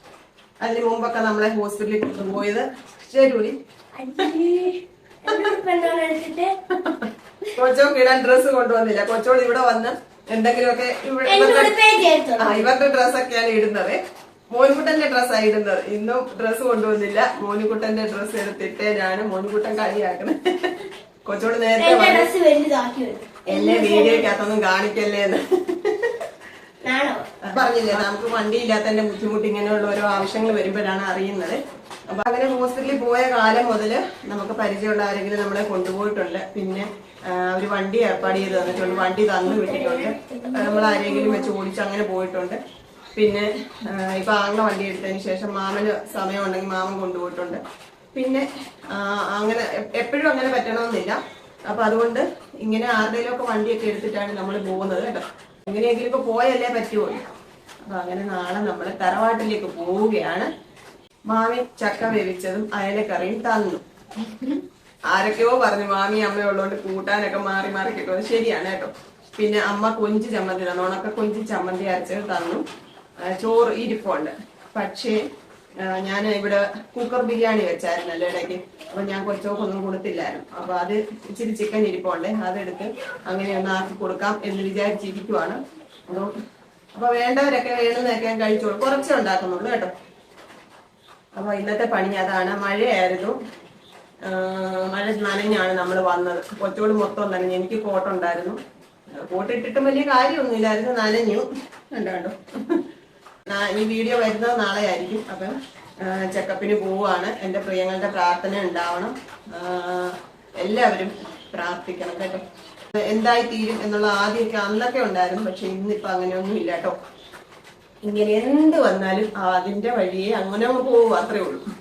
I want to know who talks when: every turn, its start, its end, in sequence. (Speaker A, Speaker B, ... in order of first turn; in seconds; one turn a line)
Speaker A: 0.6-3.6
Speaker B: 4.0-6.5
Speaker A: 6.8-11.8
Speaker B: 11.3-12.7
Speaker A: 12.4-14.0
Speaker A: 14.5-22.3
Speaker B: 21.8-24.3
Speaker A: 23.5-26.2
Speaker B: 26.8-27.3
Speaker A: 27.5-31.6
Speaker A: 32.1-42.6
Speaker B: 38.4-41.5
Speaker A: 43.1-47.6
Speaker A: 48.1-57.3
Speaker A: 57.9-60.5
Speaker A: 61.3-72.6
Speaker A: 73.2-75.2
Speaker A: 75.8-86.3
Speaker A: 87.0-89.9
Speaker A: 91.4-93.4
Speaker A: 94.3-98.6
Speaker A: 99.2-102.8
Speaker A: 103.5-112.4
Speaker A: 113.1-117.0
Speaker A: 118.0-121.6